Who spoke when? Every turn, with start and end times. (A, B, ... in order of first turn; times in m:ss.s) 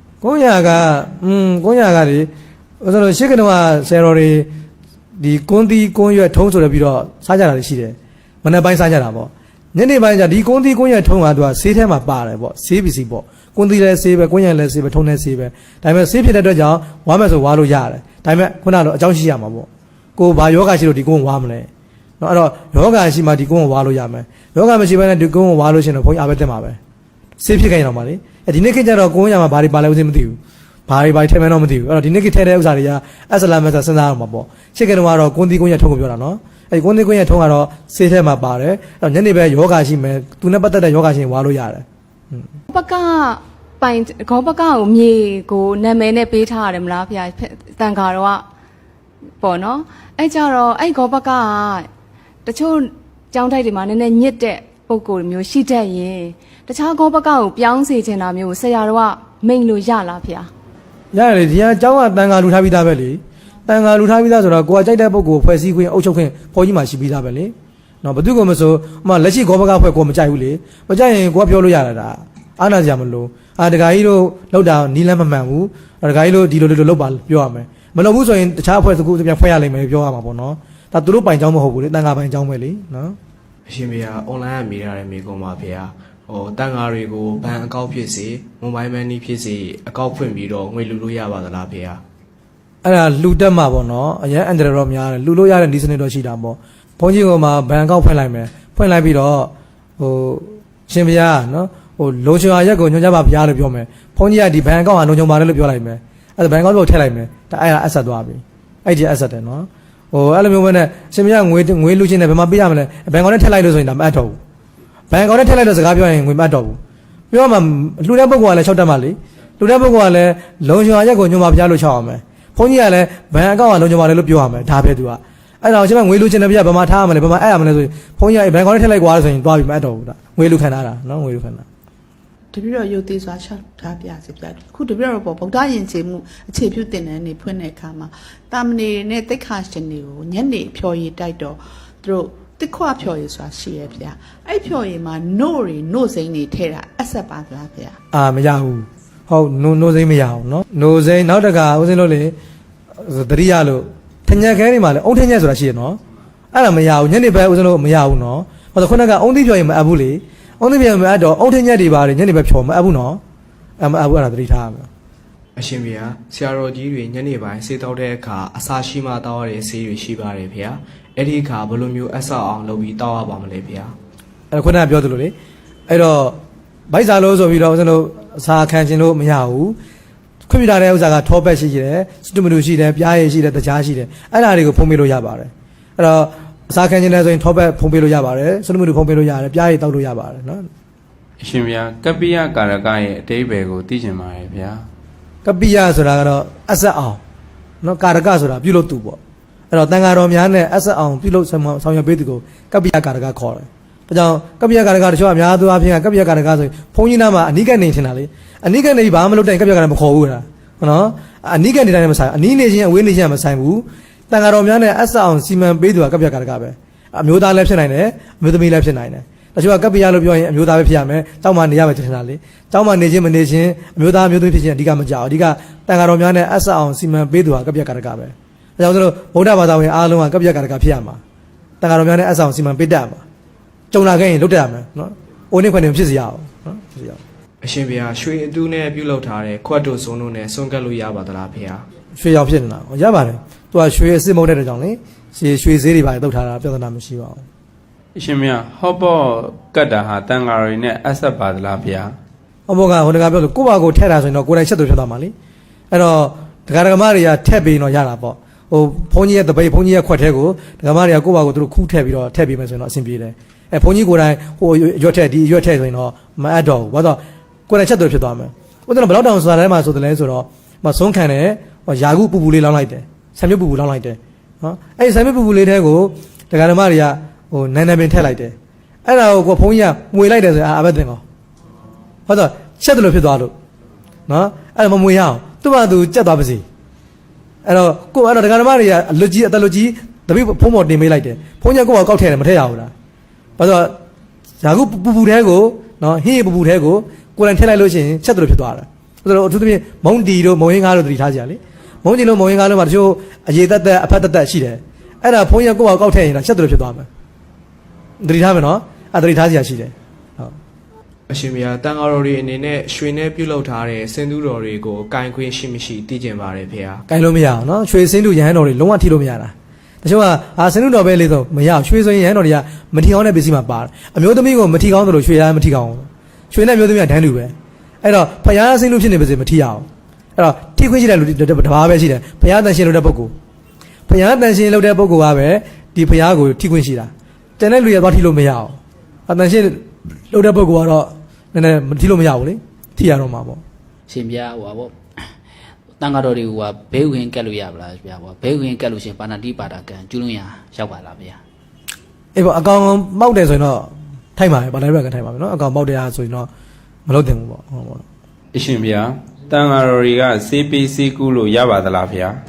0:00.2-0:02.3 A
0:02.8-0:04.5 A
0:05.2-0:21.7 A
0:22.2-0:26.8 A
0:27.4-0:42.5 A
0:42.7-0:48.4 B
0:49.4-0:51.9 B
0:52.4-1:00.5 B
1:01.1-1:23.2 A
1:23.7-1:32.0 C
1:32.8-1:54.4 A
1:55.1-1:56.8 A
1:57.3-2:11.6 A
2:12.5-2:28.0 D
2:28.1-2:32.3 A
2:33.0-2:36.0 A
2:36.5-2:43.2 A
2:43.8-2:44.9 A
2:45.6-2:53.9 C
2:54.5-2:55.3 A
2:55.9-2:59.8 A
3:00.5-3:10.7 A
3:11.4-3:14.8 E
3:15.4-3:17.2 A
3:17.8-3:19.2 A
3:19.7-3:51.2 A
3:51.8-3:53.2 A
3:53.9-3:57.2 A
3:57.6-4:01.8 C
4:02.2-4:07.4 A
4:08.1-4:12.1 E
4:12.7-4:15.3 A
4:15.9-4:41.2 A
4:42.3-4:43.5 A
4:44.3-4:46.6 A
4:47.6-4:52.9 A
4:53.6-4:54.0 A
4:54.6-5:07.1 A
5:08.2-5:10.5 A
5:11.3-5:17.0 C
5:17.1-5:33.3 A
5:34.1-5:43.6 A
5:44.1-5:44.9 F
5:46.0-5:51.4 F
5:52.3-5:56.5 A
5:57.1-5:58.0 A
5:58.5-6:02.4 E